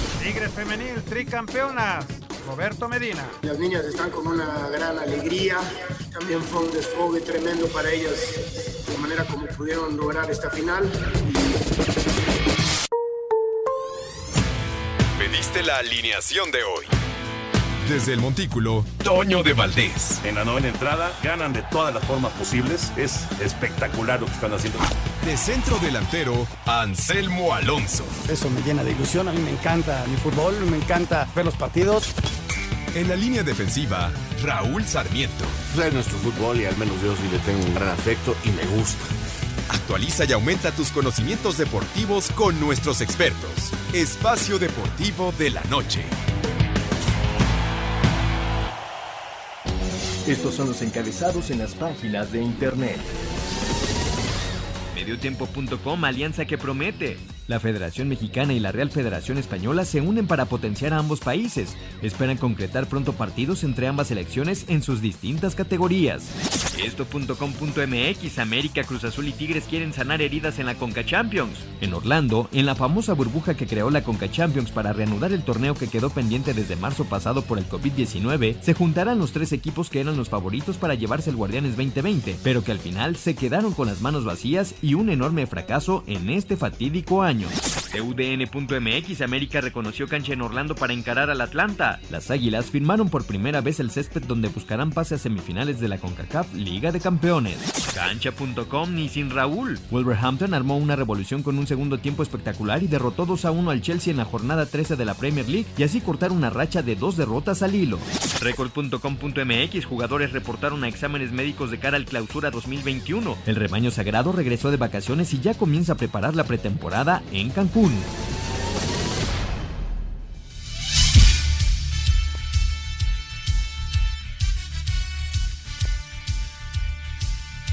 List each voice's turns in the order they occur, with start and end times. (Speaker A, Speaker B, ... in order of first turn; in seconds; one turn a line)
Speaker A: 0.2-3.4
Speaker B: 3.4-8.3
Speaker B: 8.9-11.6
Speaker C: 15.2-16.9
Speaker C: 17.9-20.2
Speaker D: 20.2-24.9
Speaker C: 25.2-28.2
Speaker E: 28.3-32.1
Speaker C: 32.9-35.6
Speaker F: 35.7-39.1
Speaker C: 39.7-46.1
Speaker G: 50.2-53.1
Speaker H: 54.9-118.1